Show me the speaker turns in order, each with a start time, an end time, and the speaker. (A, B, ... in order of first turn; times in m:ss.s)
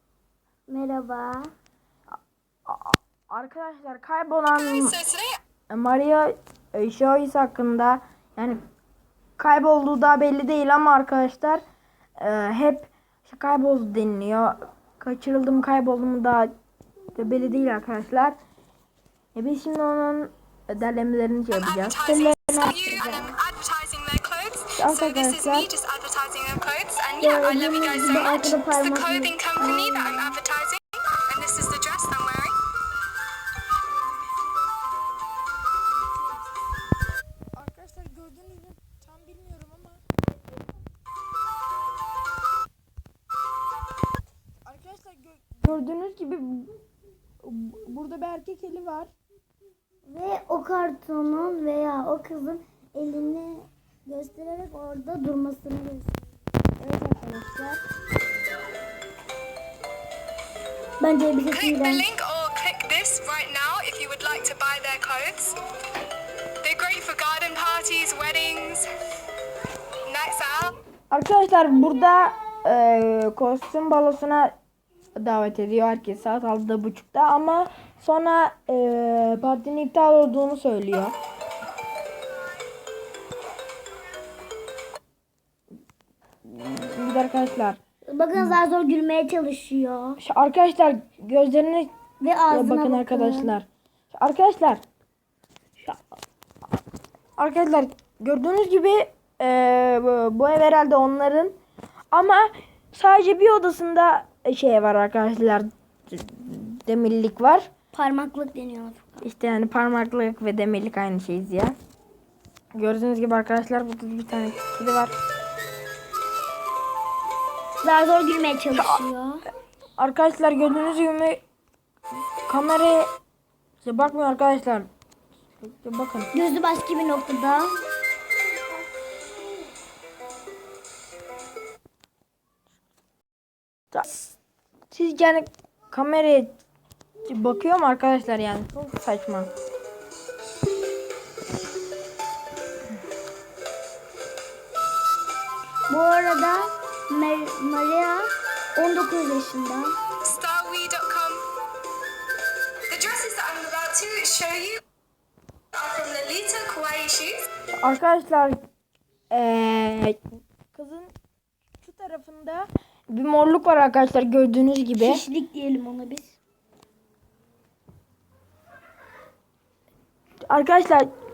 0:00.7-0:01.5 A
0:02.7-0:05.0 B
0:04.5-0:05.4 C
0:05.7-0:08.6 B
0:09.4-0:11.6 B
0:12.2-0:16.5 B
0:17.2-0:18.4 B
0:19.4-0:22.3 B
0:21.6-0:32.6 C
0:22.0-0:23.3 A
0:24.8-0:25.7 B
0:27.2-0:30.2 A
0:34.0-0:36.6 B
0:37.6-0:40.0 B
0:44.7-0:46.7 B
0:47.4-0:49.1 B
0:50.1-0:56.2 A
0:56.8-0:57.8 A
1:01.0-1:02.1 A
1:01.5-1:05.6 C
1:06.6-1:08.9 C
1:10.1-1:10.8 C
1:11.1-1:14.6 B
1:15.2-1:21.1 B
1:26.4-1:27.8 B
1:28.1-1:30.2 A
1:30.2-1:31.9 B
1:32.2-1:33.6 A
1:32.5-1:34.8 B
1:37.4-1:41.6 B
1:42.1-1:47.7 B
1:47.9-1:49.2 A
1:49.2-1:51.8 B
1:52.8-1:55.1 B
1:57.8-1:59.4 A
1:58.8-1:59.0 B
2:00.0-2:01.4 B
2:02.5-2:03.1 B
2:03.8-2:04.9 B
2:05.6-2:06.3 B
2:06.3-2:07.8 A
2:14.9-2:16.6 B
2:17.3-2:19.5 B
2:25.9-2:28.2 A
2:28.8-2:29.9 A
2:30.2-2:31.4 C
2:32.9-2:34.8 C
2:35.7-2:37.4 C
2:37.8-2:38.6 B
2:39.3-2:40.2 B
2:40.7-2:41.1 B
2:41.8-2:45.2 B
2:45.0-2:46.4 A
2:50.5-2:51.1 B